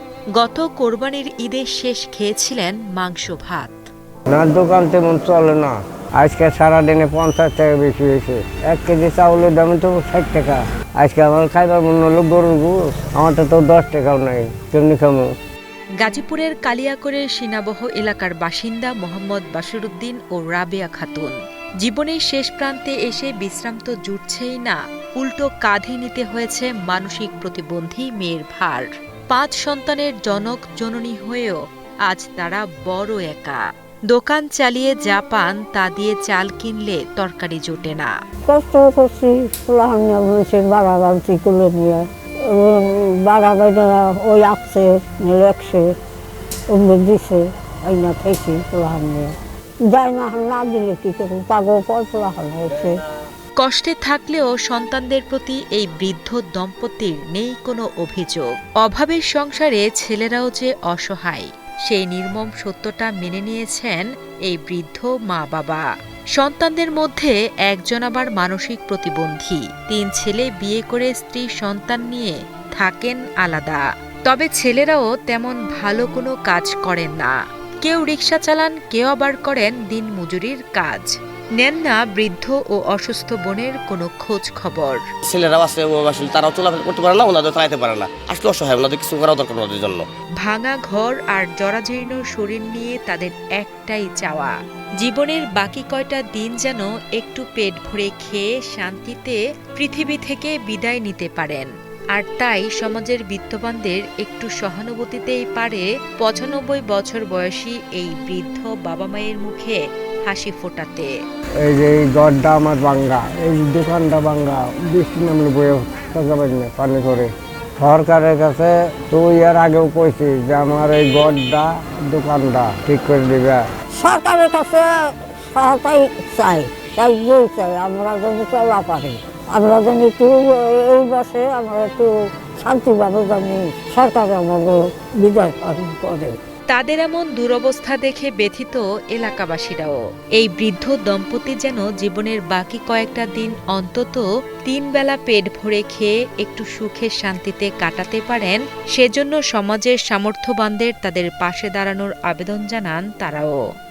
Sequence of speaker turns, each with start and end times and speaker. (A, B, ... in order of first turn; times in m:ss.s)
0:00.4-0:03.9 A
0:04.3-0:15.3 B
0:16.0-0:38.1 A
0:38.5-0:45.9 C
0:46.7-0:49.3 C
0:49.9-0:53.0 C
0:53.6-1:25.0 A
1:25.3-1:30.1 D
1:30.4-1:51.1 A
1:51.6-2:03.9 B
2:03.9-2:16.4 C
2:16.7-2:33.6 A